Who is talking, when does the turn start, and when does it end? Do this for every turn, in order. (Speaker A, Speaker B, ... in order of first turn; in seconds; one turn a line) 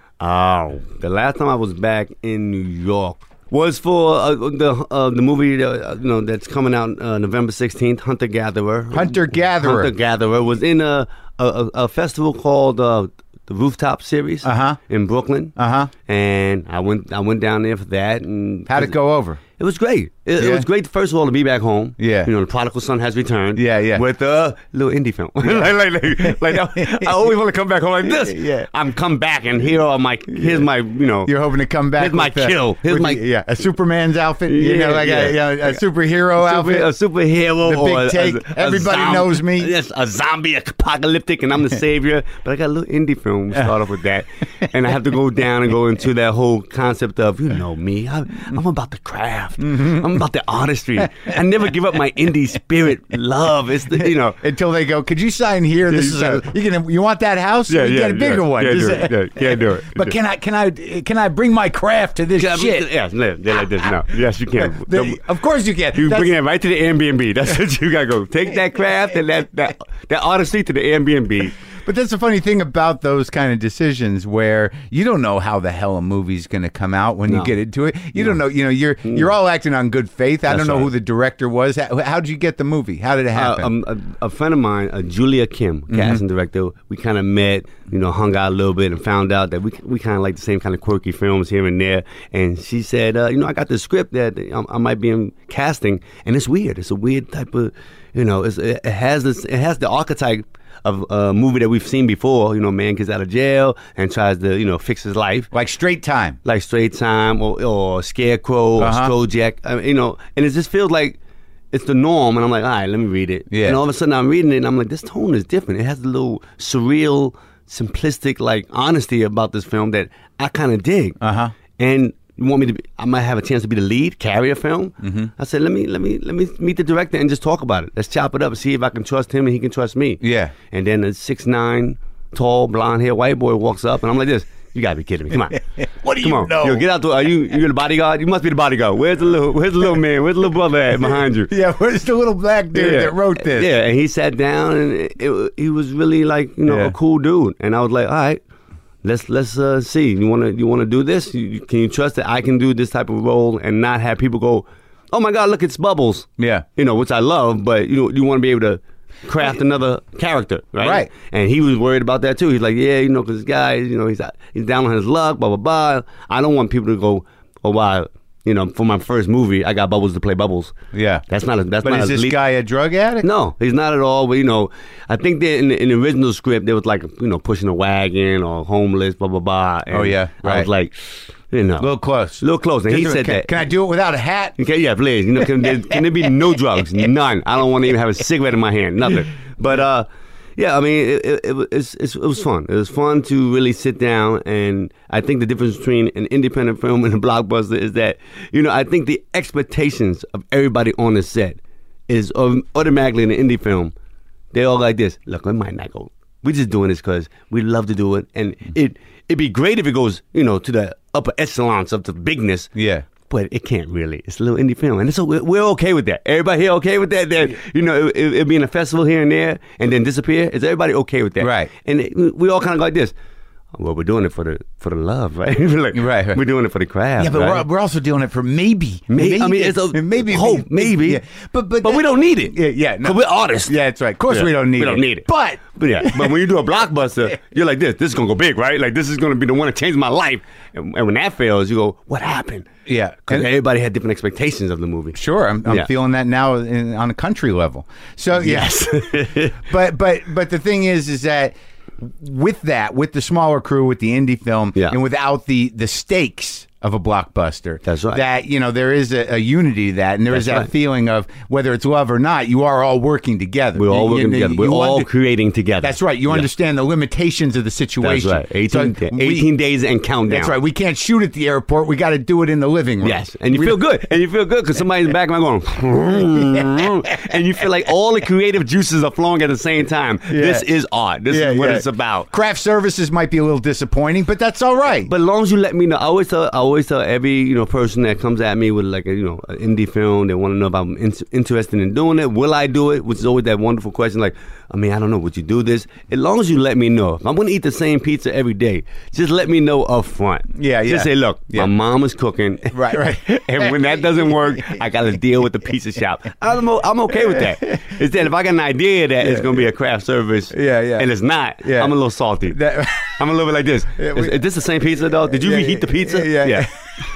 Speaker A: 0.2-15.6
Speaker B: 8.9-9.9
Speaker B: 14.4-14.8
Speaker B: 15.6-15.9
Speaker A: 16.1-18.9
Speaker B: 18.7-19.4
Speaker A: 19.6-31.3
Speaker B: 20.4-20.7
Speaker B: 22.0-22.3
Speaker B: 23.6-24.0
Speaker B: 26.2-27.2
Speaker B: 28.0-28.7
Speaker B: 31.3-36.9
Speaker A: 32.0-33.2
Speaker A: 34.5-35.8
Speaker A: 36.4-54.4
Speaker B: 37.6-39.7
Speaker B: 49.7-50.0
Speaker B: 54.0-62.9
Speaker A: 55.9-56.5
Speaker A: 57.7-60.1
Speaker A: 62.4-65.2
Speaker B: 64.8-66.3
Speaker A: 65.9-71.6
Speaker B: 71.8-83.7
Speaker A: 77.3-77.5
Speaker A: 80.5-80.9
Speaker A: 83.3-105.5
Speaker B: 85.9-86.2
Speaker B: 105.5-106.4
Speaker A: 106.4-111.2
Speaker B: 108.8-109.1
Speaker A: 111.7-121.2
Speaker B: 113.5-113.8
Speaker B: 121.2-121.5
Speaker A: 121.8-135.6
Speaker B: 125.0-125.3
Speaker B: 130.2-130.5
Speaker B: 135.8-136.8
Speaker A: 136.2-141.5
Speaker B: 141.5-143.7
Speaker A: 142.7-148.4
Speaker B: 146.7-146.9
Speaker A: 149.0-170.8
Speaker B: 156.4-156.7
Speaker B: 160.8-161.1
Speaker B: 170.9-171.2
Speaker A: 171.3-172.4
Speaker B: 171.8-173.3
Speaker A: 173.2-180.9
Speaker B: 179.9-180.7
Speaker A: 181.5-181.9
Speaker B: 181.8-184.6
Speaker A: 182.4-183.5
Speaker A: 184.6-203.9
Speaker A: 204.5-212.7
Speaker B: 212.8-213.1
Speaker A: 213.3-223.1
Speaker B: 221.4-221.7
Speaker A: 223.7-227.7
Speaker B: 225.9-226.4
Speaker B: 227.2-236.4
Speaker A: 229.1-231.2
Speaker A: 231.8-233.7
Speaker A: 234.3-242.7
Speaker B: 242.9-243.5
Speaker A: 243.3-245.9
Speaker B: 245.2-265.1
Speaker A: 248.3-249.6
Speaker A: 257.9-258.2
Speaker A: 260.3-260.7
Speaker A: 263.8-266.5
Speaker B: 265.8-269.5
Speaker A: 268.0-270.5
Speaker B: 270.3-273.8
Speaker A: 273.0-282.3
Speaker B: 280.3-280.7
Speaker B: 281.3-285.1
Speaker A: 285.1-316.8
Speaker B: 300.5-301.7
Speaker B: 302.7-304.8
Speaker B: 310.5-311.1
Speaker B: 311.6-311.9
Speaker B: 312.5-313.2
Speaker B: 314.0-314.4
Speaker B: 315.4-316.7